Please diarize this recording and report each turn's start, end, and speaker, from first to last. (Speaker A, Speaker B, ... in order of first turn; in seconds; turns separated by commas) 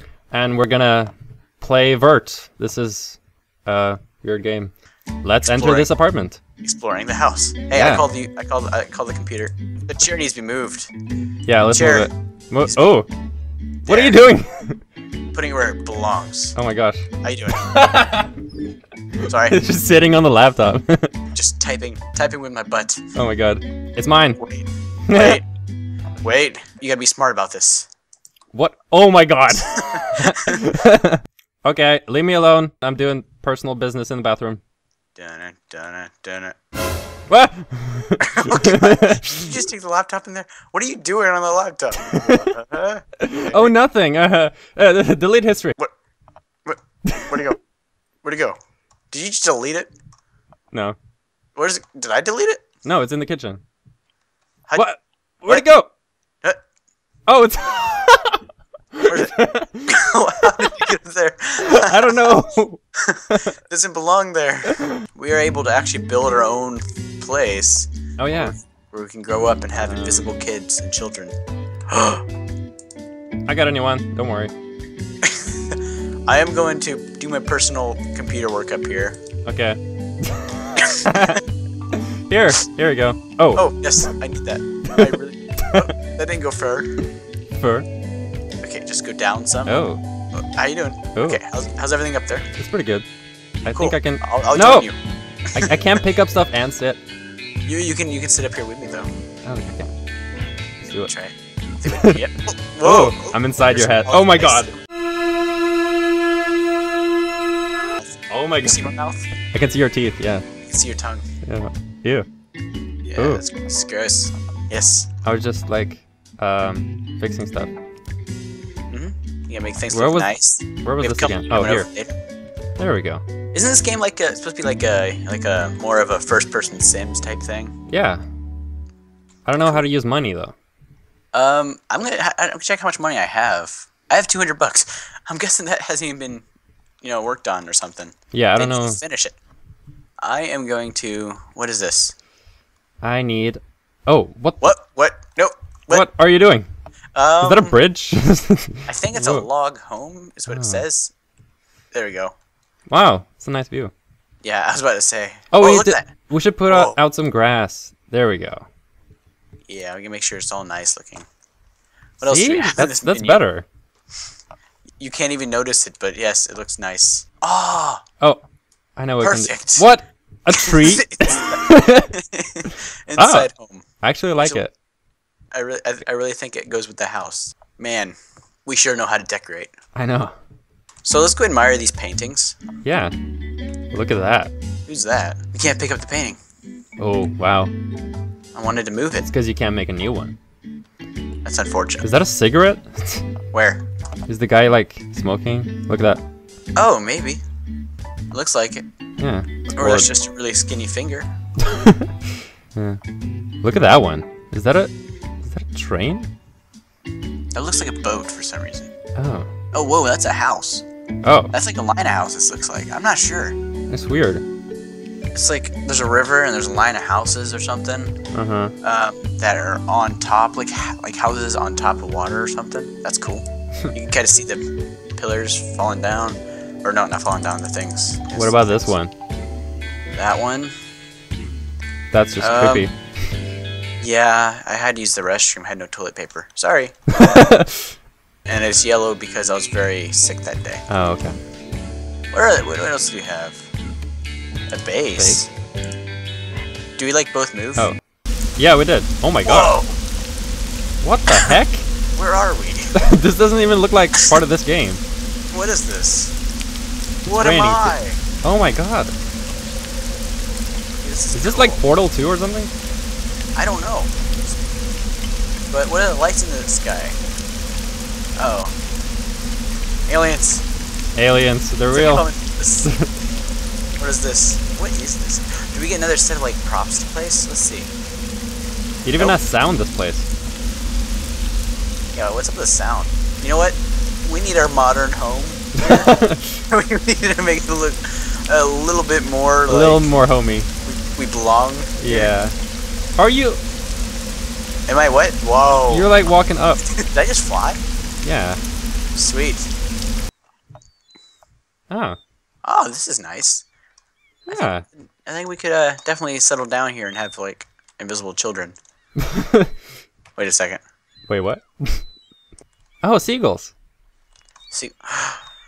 Speaker A: 0.3-4.7, Speaker A: 5.2-6.4, Speaker B: 5.4-5.9, Speaker B: 6.6-10.9, Speaker A: 7.7-8.1, Speaker A: 11.4-13.1, Speaker B: 11.7-12.1, Speaker B: 13.8-14.2, Speaker A: 13.9-14.8, Speaker B: 15.3-16.5, Speaker A: 16.6-18.3, Speaker B: 17.2-17.7, Speaker A: 19.2-21.1, Speaker B: 19.3-19.6, Speaker B: 21.3-23.0, Speaker A: 23.1-24.4, Speaker B: 24.4-25.4, Speaker A: 25.1-25.4, Speaker B: 26.2-27.9, Speaker A: 28.5-34.6, Speaker B: 29.8-30.6, Speaker B: 35.1-36.5, Speaker A: 37.3-39.5, Speaker B: 38.2-43.7, Speaker A: 42.0-42.5, Speaker A: 43.2-45.8, Speaker B: 46.6-47.6, Speaker A: 47.0-47.5, Speaker B: 48.2-48.6, Speaker B: 49.1-49.9, Speaker A: 50.7-51.0, Speaker B: 51.5-52.6, Speaker A: 52.8-53.6, Speaker A: 54.7-55.9, Speaker A: 57.3-58.4, Speaker A: 58.9-59.9, Speaker B: 59.1-62.4, Speaker A: 60.4-60.8, Speaker A: 61.7-63.5, Speaker B: 63.0-71.3, Speaker A: 68.2-68.5, Speaker B: 71.9-72.2, Speaker A: 73.5-74.5, Speaker B: 75.2-79.2, Speaker A: 79.5-81.4, Speaker B: 80.8-81.4, Speaker A: 81.9-83.7, Speaker B: 83.5-86.9, Speaker A: 87.5-87.9, Speaker B: 88.6-89.8, Speaker A: 89.7-90.0, Speaker B: 90.3-92.5, Speaker A: 91.1-91.4, Speaker A: 92.6-93.0, Speaker A: 93.6-94.9, Speaker B: 93.7-95.0, Speaker A: 95.5-97.0, Speaker B: 97.7-99.1, Speaker A: 99.5-99.9, Speaker A: 100.8-101.1, Speaker B: 101.0-104.8, Speaker A: 101.9-102.2, Speaker A: 102.8-104.7, Speaker A: 108.3-108.9, Speaker B: 108.6-109.3, Speaker A: 109.5-110.4, Speaker B: 110.7-111.2, Speaker A: 111.4-112.2, Speaker B: 113.1-115.1, Speaker A: 113.2-113.4, Speaker A: 115.2-117.7, Speaker B: 118.9-122.1, Speaker A: 119.9-121.9, Speaker A: 122.8-123.2, Speaker B: 123.5-127.8, Speaker A: 127.9-128.2, Speaker A: 129.4-130.5, Speaker B: 131.3-136.4, Speaker B: 137.0-139.4, Speaker A: 138.3-139.0, Speaker B: 140.2-142.1, Speaker A: 143.0-144.7, Speaker B: 144.6-146.1, Speaker A: 145.9-146.7, Speaker B: 147.1-147.8, Speaker A: 147.4-149.4, Speaker B: 148.9-151.1, Speaker A: 150.5-150.8, Speaker B: 151.9-152.3, Speaker A: 152.9-153.9, Speaker B: 154.4-156.1, Speaker A: 155.5-158.7, Speaker B: 156.7-156.9, Speaker B: 159.7-161.2, Speaker B: 162.2-163.4, Speaker A: 162.3-163.7, Speaker B: 165.0-168.0, Speaker A: 169.0-172.1, Speaker B: 169.2-169.9, Speaker B: 170.5-173.8, Speaker A: 173.2-173.5, Speaker A: 174.0-174.7, Speaker B: 175.5-179.7, Speaker A: 179.9-180.3, Speaker B: 181.0-182.6, Speaker A: 182.8-183.1, Speaker A: 183.9-184.5, Speaker B: 184.9-186.4, Speaker A: 187.0-187.7, Speaker B: 188.5-189.3, Speaker A: 189.3-190.3, Speaker B: 191.4-192.0, Speaker A: 192.0-193.2, Speaker B: 193.5-193.8, Speaker A: 194.3-196.2, Speaker B: 196.8-197.4, Speaker B: 198.3-198.8, Speaker A: 199.2-200.1, Speaker B: 199.8-201.3, Speaker A: 201.6-202.1, Speaker A: 203.6-206.3, Speaker B: 207.5-208.9, Speaker A: 209.2-209.5, Speaker B: 209.7-210.8, Speaker A: 211.2-211.5, Speaker B: 211.5-213.6, Speaker A: 213.9-214.4, Speaker B: 215.3-218.1, Speaker A: 218.3-218.7, Speaker B: 218.8-224.6, Speaker B: 225.2-228.9, Speaker A: 228.3-229.1, Speaker B: 230.1-230.7, Speaker A: 232.1-232.9, Speaker B: 232.4-232.9, Speaker B: 234.0-237.5, Speaker A: 237.2-237.8, Speaker B: 238.4-240.8, Speaker A: 240.9-241.4, Speaker B: 242.3-243.7, Speaker B: 244.7-245.5, Speaker B: 247.0-247.9, Speaker A: 248.6-249.8, Speaker B: 249.4-249.9, Speaker A: 251.0-251.9, Speaker B: 252.1-252.9, Speaker A: 252.9-255.0, Speaker B: 255.5-256.3, Speaker B: 257.2-258.2, Speaker A: 257.3-259.1, Speaker B: 261.0-261.8, Speaker A: 261.3-262.7, Speaker B: 263.6-264.2, Speaker B: 265.7-267.2, Speaker B: 268.4-268.7, Speaker B: 270.1-270.6, Speaker A: 271.1-272.2, Speaker B: 271.9-272.9, Speaker A: 272.8-273.1, Speaker B: 274.0-277.9, Speaker A: 279.0-280.3, Speaker B: 282.1-290.1, Speaker A: 285.8-286.6, Speaker A: 289.7-290.7, Speaker B: 290.8-292.3, Speaker A: 292.0-292.5, Speaker A: 293.2-293.6, Speaker B: 294.9-296.1, Speaker A: 295.9-296.8, Speaker B: 296.8-297.8, Speaker A: 298.2-298.6, Speaker B: 299.1-299.7, Speaker A: 301.9-302.2, Speaker B: 302.6-303.6, Speaker A: 304.5-304.8, Speaker B: 305.2-308.8, Speaker A: 309.2-309.7, Speaker B: 310.4-310.8, Speaker A: 311.3-312.0, Speaker A: 313.0-313.7, Speaker B: 314.7-315.4